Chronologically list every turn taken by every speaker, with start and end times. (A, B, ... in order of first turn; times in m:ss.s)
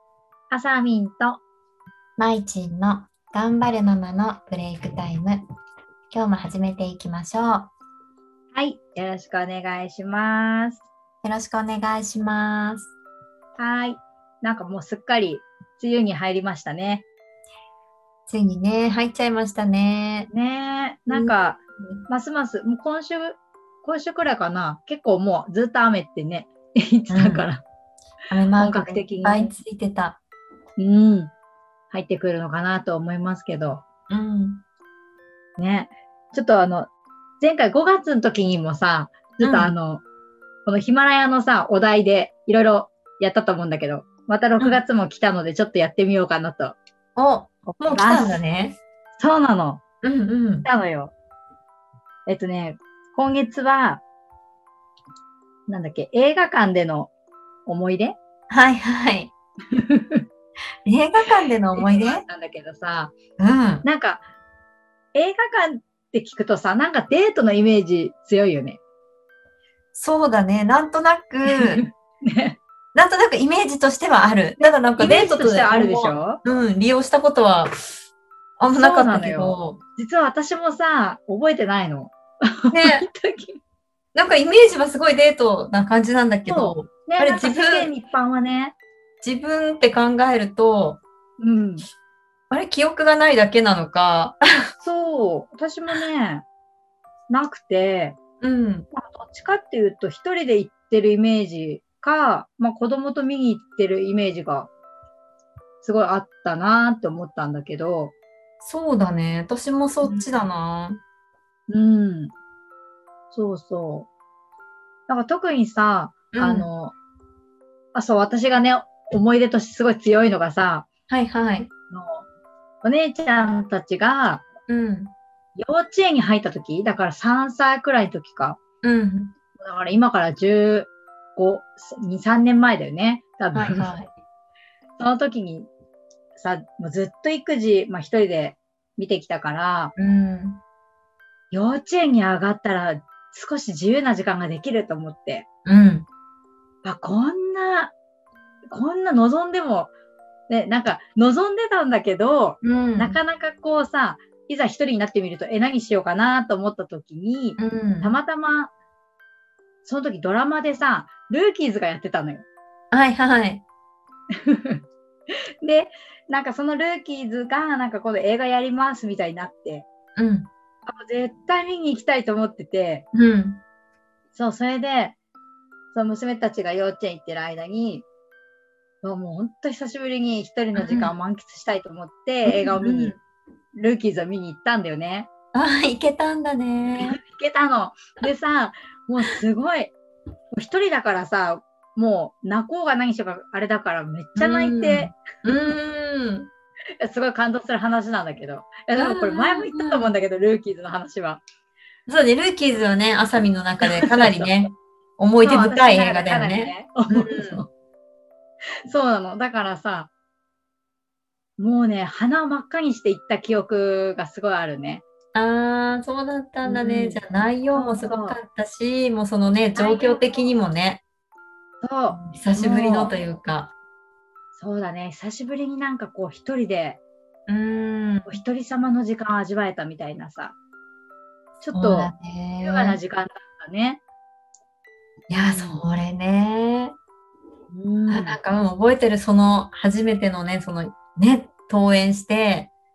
0:00.5-0:01.4 A
0:02.2-0:05.4 B
0:06.1-0:07.7 B
0:08.5-0:10.8 A
0:11.2-0:12.9 B
0:13.6-0:17.1 A
0:18.3-0:20.3 B
0:20.3-0:27.6 A
0:27.1-0:27.4 B
0:28.3-0:30.2 B
0:28.6-0:29.5 A
0:30.8-0:31.3 A
0:31.9-0:33.8 A
0:34.1-0:34.6 B
0:35.6-0:36.9 A
0:37.4-0:40.0 A
0:39.4-0:39.7 B
0:40.7-0:46.8 A
0:47.2-0:48.8 B
0:47.7-0:48.4 A
0:49.2-0:49.8 A
0:50.0-0:50.7 B
0:50.6-0:51.1 A
0:52.3-0:54.0 A
0:55.7-0:57.1 A
0:57.7-0:58.2 A
0:58.5-0:59.3 B
0:59.7-1:00.2 A
1:00.9-1:02.2 B
1:01.8-1:03.1 A
1:03.4-1:03.8 B
1:03.8-1:04.2 A
1:05.1-1:08.8 A
1:09.9-1:11.8 B
1:11.5-1:12.6 A
1:13.0-1:17.7 B
1:14.6-1:16.4 A
1:18.6-1:19.8 B
1:18.7-1:23.6 A
1:22.7-1:23.1 B
1:24.2-1:27.9 B
1:26.5-1:28.8 A
1:29.2-1:31.0 B
1:31.4-1:31.9 A
1:32.5-1:34.4 B
1:34.8-1:36.4 A
1:37.3-1:38.2 A
1:38.4-1:38.9 B
1:38.9-1:44.7 A
1:45.8-1:48.1 A
1:48.6-1:51.0 B
1:50.0-1:50.4 A
1:51.7-1:52.3 A
1:53.3-1:54.1 A
1:55.1-1:56.9 A
1:56.3-1:56.7 B
1:58.0-2:00.9 A
2:01.1-2:01.7 B
2:01.9-2:02.3 A
2:02.8-2:04.4 A
2:04.7-2:05.1 B
2:05.6-2:08.6 A
2:08.8-2:09.3 B
2:09.6-2:13.9 A
2:13.5-2:14.1 B
2:15.0-2:15.7 A
2:16.4-2:19.9 A
2:20.0-2:20.6 B
2:21.5-2:25.5 A
2:25.6-2:26.1 B
2:26.8-2:27.9 A
2:28.7-2:29.9 A
2:30.5-2:38.7 A
2:32.6-2:33.2 B
2:37.6-2:38.2 B
2:39.8-2:42.5 A
2:42.9-2:43.6 B
2:44.4-2:44.8 A
2:45.6-2:49.9 A
2:50.2-2:50.5 B
2:50.9-2:53.1 A
2:53.1-2:53.6 B
2:54.3-2:55.2 A
2:55.9-2:58.0 A
2:59.0-3:03.2 A
3:00.8-3:01.1 B
3:02.5-3:03.2 B
3:03.8-3:05.3 A
3:05.5-3:07.2 B
3:07.0-3:09.9 A
3:10.5-3:15.2 A
3:14.4-3:16.5 B
3:17.0-3:21.4 A
3:19.0-3:20.1 B
3:22.1-3:27.6 B
3:23.8-3:24.5 A
3:25.4-3:27.7 A
3:28.9-3:30.1 A
3:31.6-3:35.0 A
3:35.3-3:41.0 B
3:36.6-3:37.2 A
3:37.7-3:38.4 A
3:39.8-3:40.5 A
3:41.8-3:43.1 A
3:42.1-3:43.7 B
3:44.5-3:47.0 A
3:47.5-3:48.4 B
3:48.2-3:50.6 A
3:51.6-3:52.1 A
3:51.7-3:53.0 B
3:52.6-3:54.0 A
3:55.3-3:57.0 B
3:55.4-3:55.8 A
3:57.7-3:58.4 A
3:58.1-4:02.7 B